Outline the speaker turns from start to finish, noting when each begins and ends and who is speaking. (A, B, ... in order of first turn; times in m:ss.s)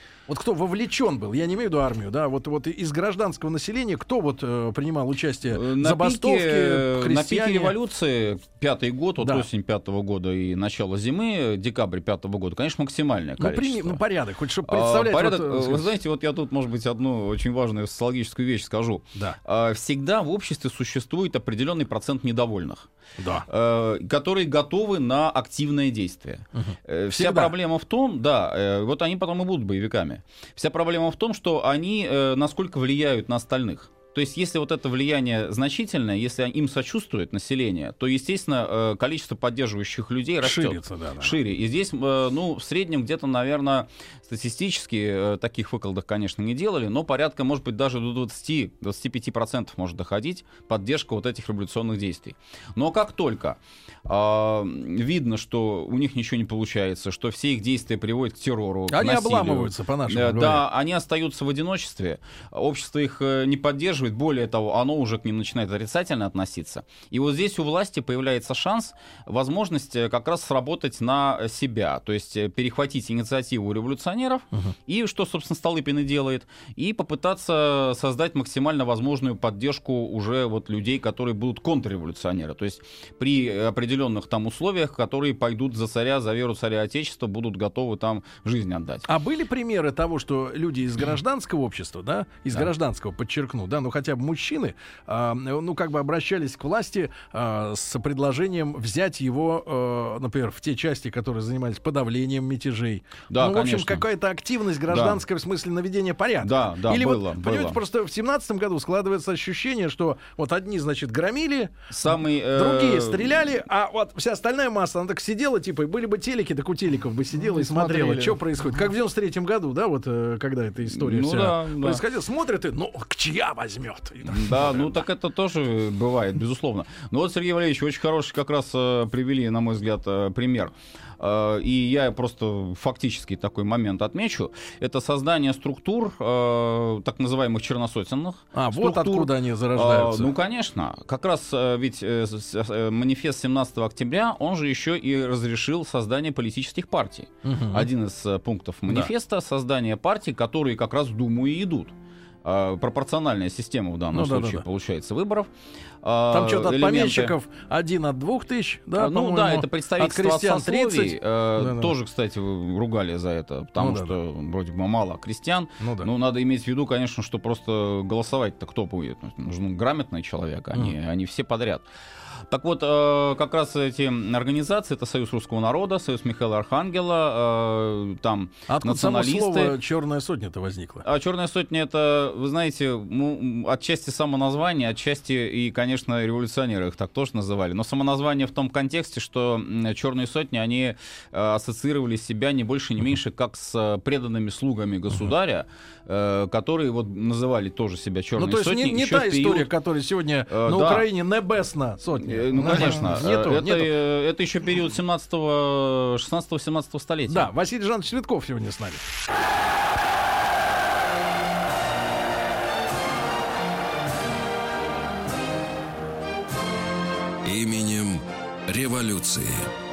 0:00.3-0:07.8 A
0:05.5-0:14.0 B
0:09.2-0:09.5 A
0:13.4-0:15.8 A
0:14.7-0:22.9 B
0:23.2-0:23.5 A
0:23.5-1:29.1 B
0:26.6-0:27.5 A
0:40.4-0:41.4 A
0:58.9-1:00.6 A
1:29.1-1:51.7 A
1:43.3-1:44.0 B
1:44.9-1:45.2 B
1:46.4-1:47.8 B
1:51.9-1:53.5 B
1:52.5-2:04.9 A
1:57.3-1:58.4 B
2:00.9-2:02.0 B
2:04.3-2:35.5 B
2:18.5-2:20.3 A
2:27.4-2:27.9 A
2:34.1-2:34.6 A
2:36.0-2:37.3 B
2:36.3-2:41.9 A
2:39.0-2:51.9 B
2:43.8-2:44.2 A
2:45.8-2:46.1 A
2:52.5-2:59.7 B
2:58.7-3:01.0 A
3:01.0-3:19.7 B
3:18.4-3:23.9 A
3:20.5-3:21.1 B
3:22.2-3:27.5 B
3:27.3-3:29.0 A
3:37.4-3:39.7 C